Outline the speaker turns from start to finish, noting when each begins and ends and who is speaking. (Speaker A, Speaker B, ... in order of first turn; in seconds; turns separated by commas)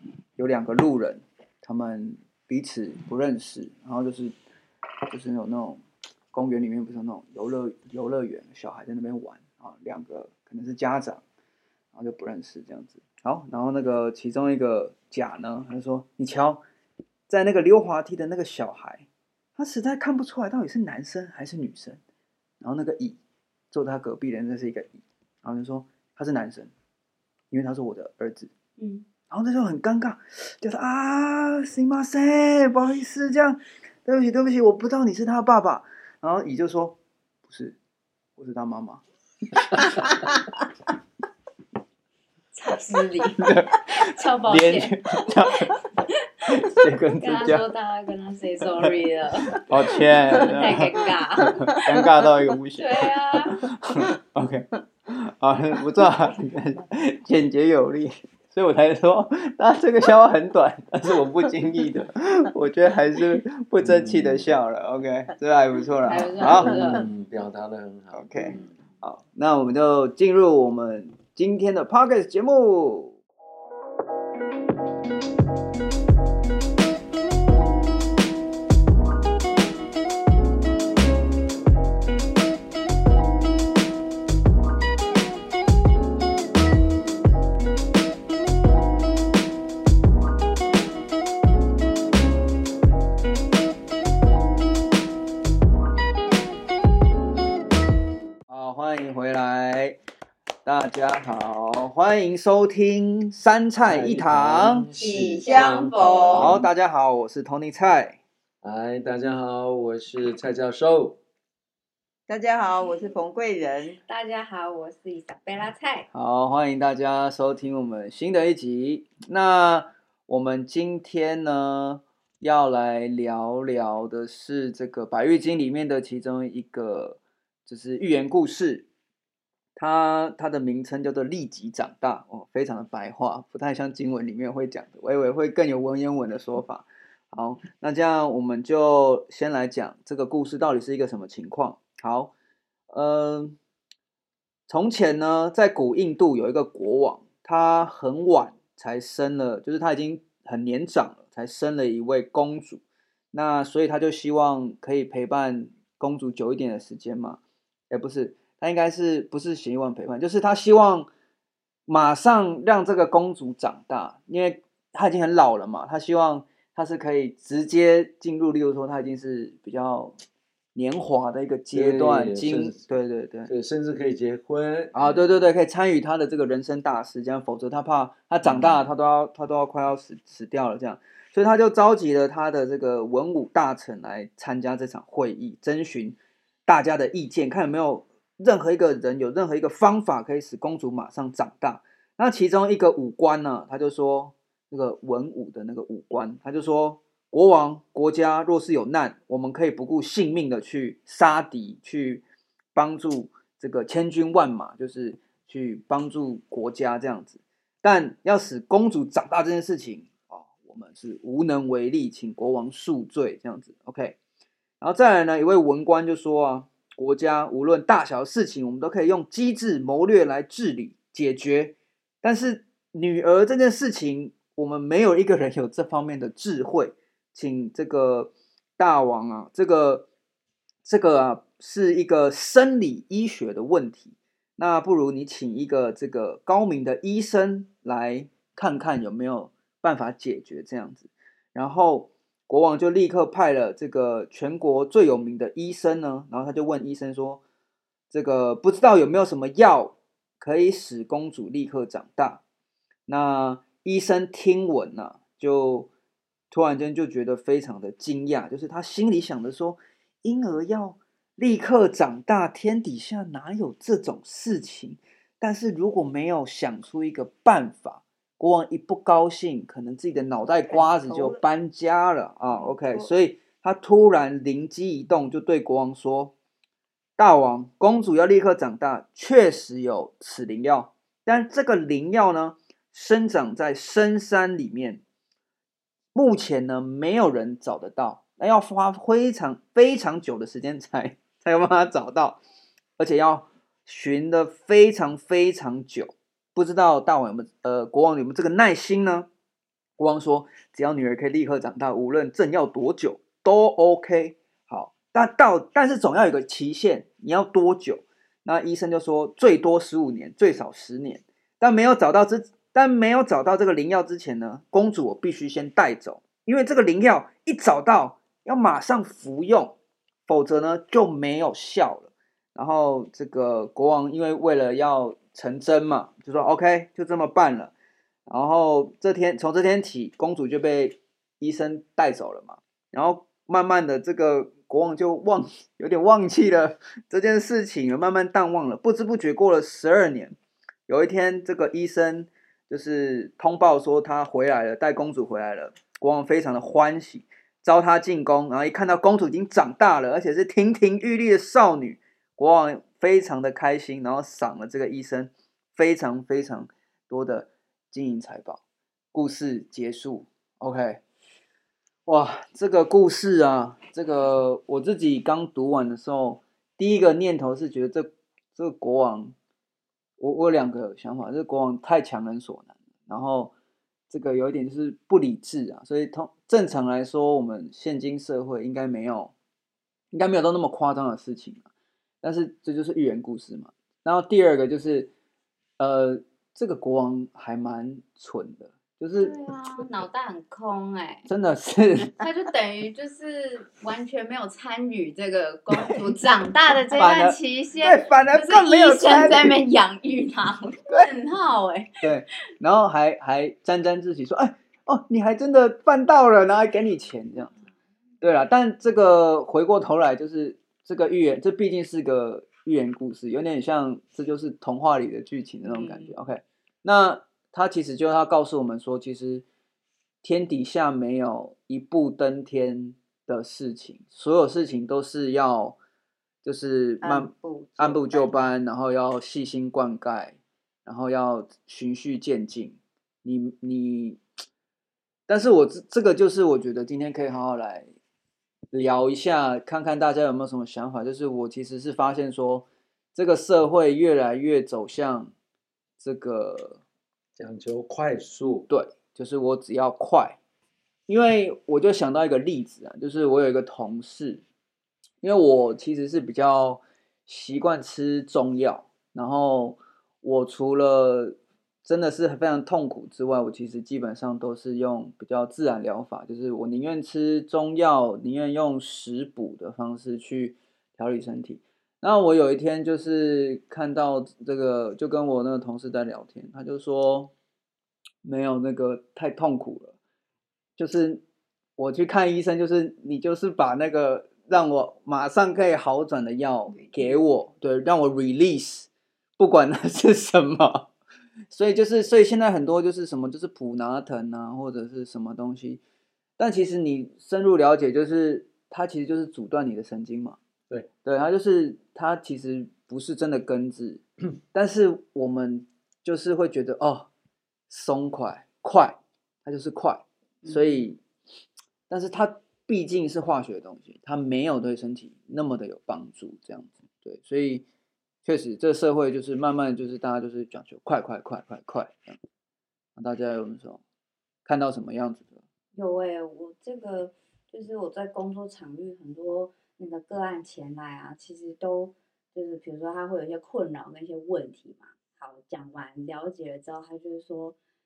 Speaker A: 0.4-4.3, Speaker A: 5.1-5.8, Speaker A: 6.3-11.2, Speaker A: 11.9-16.6, Speaker A: 17.3-22.0, Speaker A: 22.6-23.2, Speaker A: 23.7-26.7, Speaker A: 27.5-28.5, Speaker B: 28.8-29.0, Speaker A: 29.3-37.8, Speaker A: 38.4-39.0, Speaker A: 39.6-40.5, Speaker B: 42.5-45.9, Speaker A: 43.4-45.8, Speaker A: 46.5-47.7, Speaker B: 47.2-49.7, Speaker A: 49.5-67.0, Speaker B: 50.3-51.8, Speaker B: 52.8-53.7, Speaker C: 63.8-64.5, Speaker B: 66.0-67.0, Speaker C: 66.4-68.7, Speaker A: 68.1-73.2, Speaker A: 98.5-100.0, Speaker A: 100.7-104.9, Speaker C: 103.9-106.7, Speaker B: 105.0-106.5, Speaker D: 105.0-106.3, Speaker A: 106.3-108.2, Speaker C: 108.6-111.2, Speaker D: 112.3-114.0, Speaker B: 114.1-116.1, Speaker A: 116.1-128.9, Speaker A: 129.8-142.3, Speaker A: 142.9-143.6, Speaker A: 144.7-161.1, Speaker A: 161.9-170.2, Speaker A: 170.8-173.5, Speaker C: 171.7-172.9, Speaker C: 173.5-175.4, Speaker A: 174.9-202.2, Speaker C: 178.4-178.8, Speaker A: 202.8-214.2, Speaker A: 214.8-230.1, Speaker A: 230.8-247.4, Speaker A: 248.1-252.4, Speaker A: 253.1-255.9, Speaker A: 256.5-276.3, Speaker D: 270.7-271.4, Speaker D: 272.5-273.1, Speaker A: 277.2-285.0, Speaker A: 286.1-292.4, Speaker A: 293.0-299.3, Speaker A: 300.0-327.7, Speaker A: 328.3-340.4, Speaker A: 340.9-358.6, Speaker A: 359.1-361.0, Speaker A: 362.1-369.4, Speaker A: 370.2-373.5, Speaker A: 374.1-379.3, Speaker A: 380.1-381.7, Speaker A: 382.2-385.1, Speaker A: 385.8-389.4, Speaker B: 389.2-391.3, Speaker A: 391.3-392.3, Speaker B: 392.1-402.1, Speaker A: 395.7-396.1, Speaker A: 396.9-399.6, Speaker A: 402.0-407.5, Speaker A: 408.2-419.4, Speaker B: 415.6-416.1, Speaker A: 420.2-425.8, Speaker A: 426.4-434.2, Speaker D: 427.0-428.4, Speaker A: 435.3-437.9, Speaker A: 438.7-445.3, Speaker A: 446.0-446.8, Speaker C: 447.4-448.7, Speaker A: 448.7-450.4, Speaker A: 451.1-454.4, Speaker A: 455.2-477.3, Speaker A: 478.2-480.0, Speaker A: 480.8-481.2, Speaker A: 481.8-490.9, Speaker D: 486.7-487.2, Speaker A: 491.5-495.8, Speaker A: 496.4-500.4, Speaker A: 501.0-507.1, Speaker A: 507.7-511.0, Speaker A: 511.9-517.7, Speaker A: 518.2-522.2, Speaker A: 523.0-523.8, Speaker A: 524.5-525.4, Speaker B: 525.8-537.6